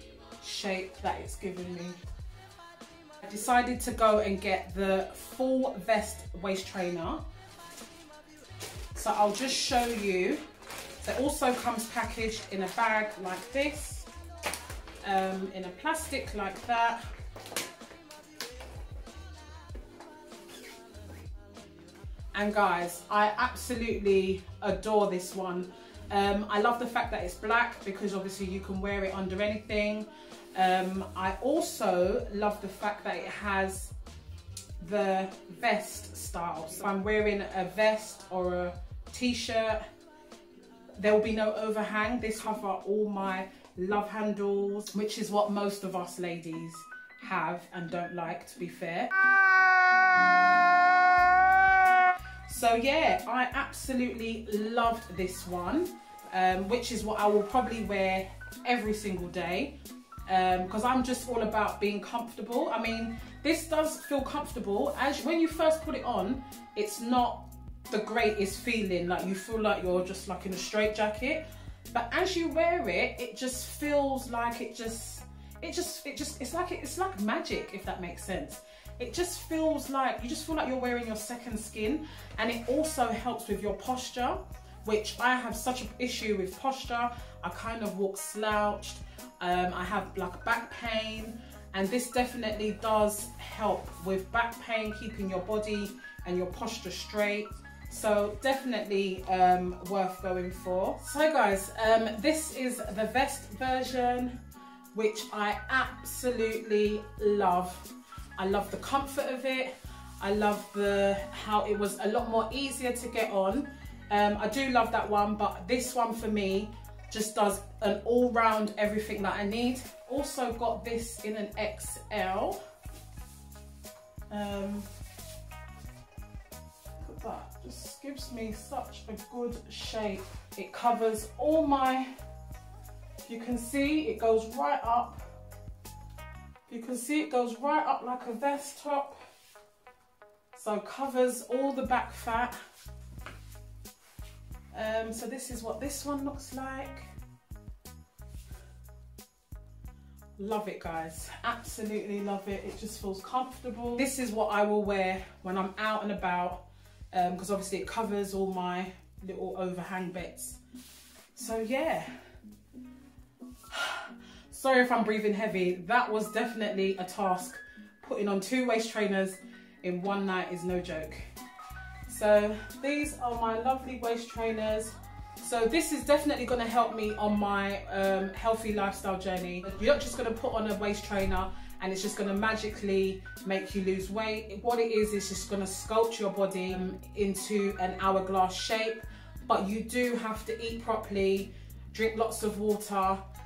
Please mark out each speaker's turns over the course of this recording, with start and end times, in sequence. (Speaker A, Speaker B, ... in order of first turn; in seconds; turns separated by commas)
Speaker A: 0.4-2.0, Speaker A: 3.2-7.2, Speaker A: 8.9-10.4, Speaker A: 11.0-14.1, Speaker A: 15.0-17.0, Speaker A: 22.3-33.9, Speaker A: 34.8-39.8, Speaker A: 41.0-49.3, Speaker A: 52.5-59.7, Speaker A: 60.3-104.3, Speaker A: 104.9-122.6, Speaker A: 124.3-124.9, Speaker A: 127.0-132.1, Speaker A: 133.2-135.2, Speaker A: 136.7-139.2, Speaker A: 140.5-142.6, Speaker A: 144.7-147.1, Speaker A: 150.4-160.6, Speaker A: 161.3-162.1, Speaker A: 163.7-171.2, Speaker A: 172.1-193.2